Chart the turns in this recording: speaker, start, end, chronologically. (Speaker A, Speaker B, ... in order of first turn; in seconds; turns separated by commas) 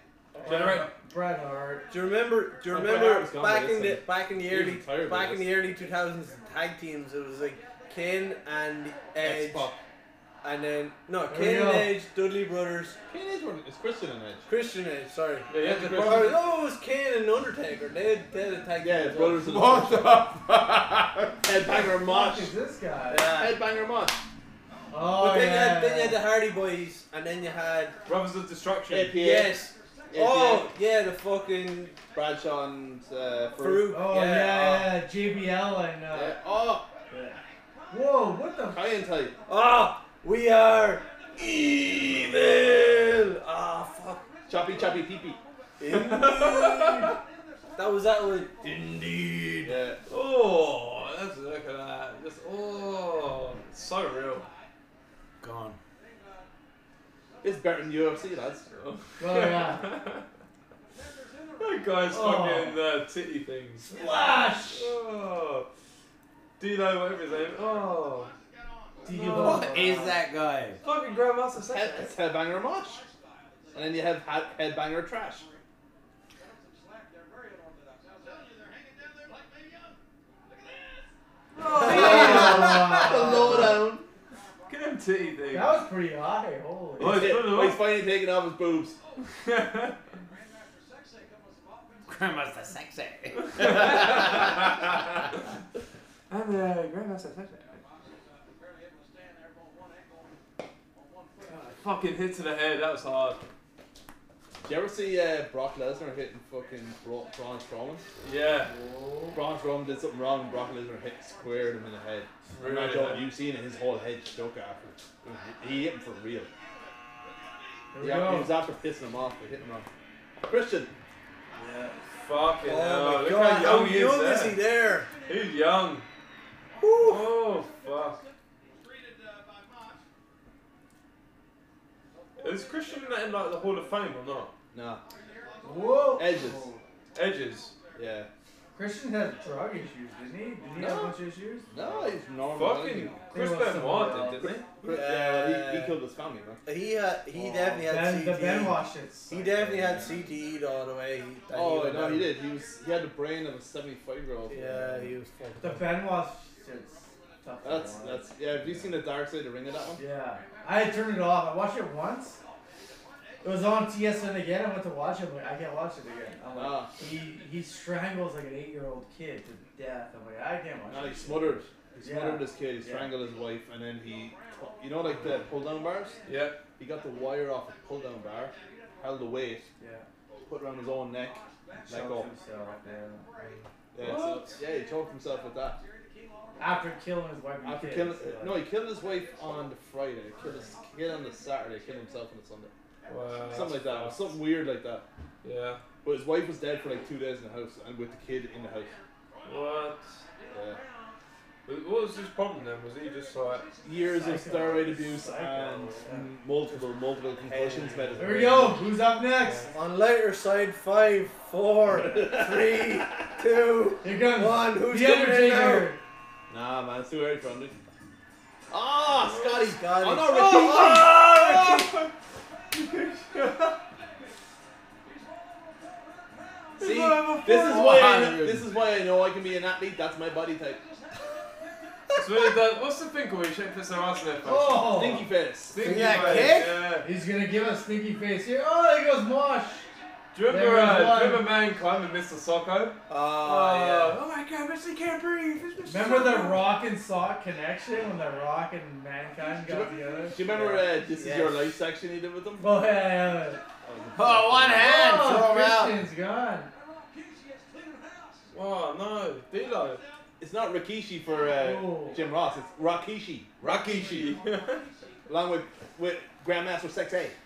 Speaker A: 0.4-1.9, Speaker B: 0.4-0.9, Speaker C: 1.9-9.7, Speaker D: 2.7-5.5, Speaker D: 9.2-9.8, Speaker C: 10.4-13.0, Speaker A: 11.3-12.0, Speaker D: 13.1-14.5, Speaker C: 14.4-19.5, Speaker B: 15.5-16.4, Speaker D: 15.6-16.3, Speaker D: 18.8-20.2, Speaker E: 19.4-21.4, Speaker D: 21.4-22.5, Speaker A: 21.7-23.3, Speaker C: 23.1-23.5, Speaker D: 23.2-24.2, Speaker A: 24.9-26.2, Speaker C: 25.1-27.9, Speaker B: 28.0-29.1, Speaker D: 28.9-30.7, Speaker C: 29.1-32.0, Speaker D: 32.1-34.9, Speaker C: 33.6-34.7, Speaker A: 33.9-36.4, Speaker D: 36.1-36.9, Speaker A: 37.1-38.8, Speaker D: 38.7-39.4, Speaker C: 39.5-44.3, Speaker D: 44.5-45.4, Speaker C: 45.8-47.1, Speaker B: 45.8-47.1, Speaker C: 47.8-49.8, Speaker D: 49.6-50.0, Speaker B: 50.0-54.5, Speaker E: 55.4-55.8, Speaker D: 57.4-58.7, Speaker B: 58.7-60.2, Speaker A: 59.2-59.9, Speaker B: 61.6-63.9, Speaker A: 62.1-62.8, Speaker A: 63.9-64.9, Speaker B: 64.7-65.7, Speaker B: 66.6-68.3, Speaker A: 69.0-70.2, Speaker B: 69.1-70.1, Speaker E: 69.3-70.8, Speaker B: 70.8-72.1, Speaker D: 71.6-73.0, Speaker D: 73.7-75.5, Speaker B: 81.5-82.8, Speaker A: 81.7-83.8, Speaker D: 81.7-84.0, Speaker C: 81.8-83.5, Speaker B: 84.7-85.8, Speaker A: 85.5-87.3, Speaker D: 87.0-89.0, Speaker B: 87.0-87.8, Speaker B: 89.2-90.0, Speaker E: 92.1-94.5, Speaker B: 93.4-95.0, Speaker B: 96.3-97.8, Speaker B: 101.5-103.4, Speaker D: 104.7-108.0, Speaker B: 108.2-108.7, Speaker A: 108.7-109.4, Speaker D: 109.3-116.5, Speaker B: 112.5-113.3, Speaker A: 117.9-118.5, Speaker D: 118.0-119.9, Speaker D: 120.4-120.9, Speaker A: 121.5-122.0, Speaker B: 122.2-124.6, Speaker C: 122.6-125.1, Speaker B: 125.2-126.1, Speaker C: 126.8-127.4, Speaker B: 127.0-128.2, Speaker B: 132.4-134.5, Speaker D: 134.7-135.0, Speaker A: 135.6-136.8, Speaker D: 136.2-136.7, Speaker B: 137.1-137.7, Speaker D: 137.9-138.3, Speaker A: 138.7-141.7, Speaker D: 140.8-141.2, Speaker D: 141.7-143.2, Speaker B: 142.5-144.7, Speaker A: 143.3-144.6, Speaker D: 144.8-146.6, Speaker C: 144.8-145.9, Speaker C: 146.6-152.3, Speaker D: 147.4-147.8, Speaker A: 147.8-149.3, Speaker D: 149.3-150.2, Speaker D: 151.5-155.1, Speaker C: 154.5-155.8, Speaker A: 155.6-158.9, Speaker D: 157.6-160.0, Speaker A: 159.9-162.4, Speaker A: 163.4-173.1, Speaker D: 166.6-166.9, Speaker D: 170.9-176.2, Speaker B: 176.2-176.6, Speaker D: 176.8-179.7, Speaker A: 179.8-180.1, Speaker D: 180.4-182.3, Speaker A: 181.7-183.2, Speaker B: 183.4-184.6, Speaker D: 183.9-185.8, Speaker A: 186.6-188.6, Speaker D: 187.6-192.7, Speaker B: 193.1-194.3, Speaker D: 193.5-195.0, Speaker B: 195.4-195.8, Speaker D: 196.0-198.9, Speaker B: 199.4-200.2, Speaker D: 200.5-200.8, Speaker B: 201.6-203.7, Speaker D: 203.8-208.9, Speaker A: 204.1-206.3, Speaker C: 207.4-208.3, Speaker A: 208.2-209.7, Speaker B: 209.4-209.7, Speaker C: 209.7-215.9, Speaker D: 211.9-212.8, Speaker A: 214.0-216.0, Speaker D: 216.5-217.7, Speaker D: 218.7-221.8, Speaker B: 219.2-219.7, Speaker C: 219.7-220.9, Speaker B: 220.5-222.1, Speaker B: 222.7-223.8, Speaker B: 226.8-228.6, Speaker D: 226.8-230.8, Speaker B: 232.1-234.9, Speaker A: 234.4-235.3, Speaker D: 234.8-236.1, Speaker B: 235.7-237.1, Speaker E: 235.8-236.8, Speaker C: 235.9-236.6, Speaker A: 237.0-239.8, Speaker B: 240.3-246.7, Speaker A: 240.4-241.5, Speaker C: 243.1-244.2, Speaker A: 245.8-250.8, Speaker D: 249.7-252.7, Speaker C: 251.1-251.8, Speaker A: 252.6-253.6, Speaker D: 253.8-255.0, Speaker E: 254.1-256.0, Speaker A: 254.7-256.7, Speaker B: 258.5-260.0, Speaker D: 260.4-264.4, Speaker A: 261.5-262.2, Speaker B: 263.6-264.9, Speaker D: 265.3-267.3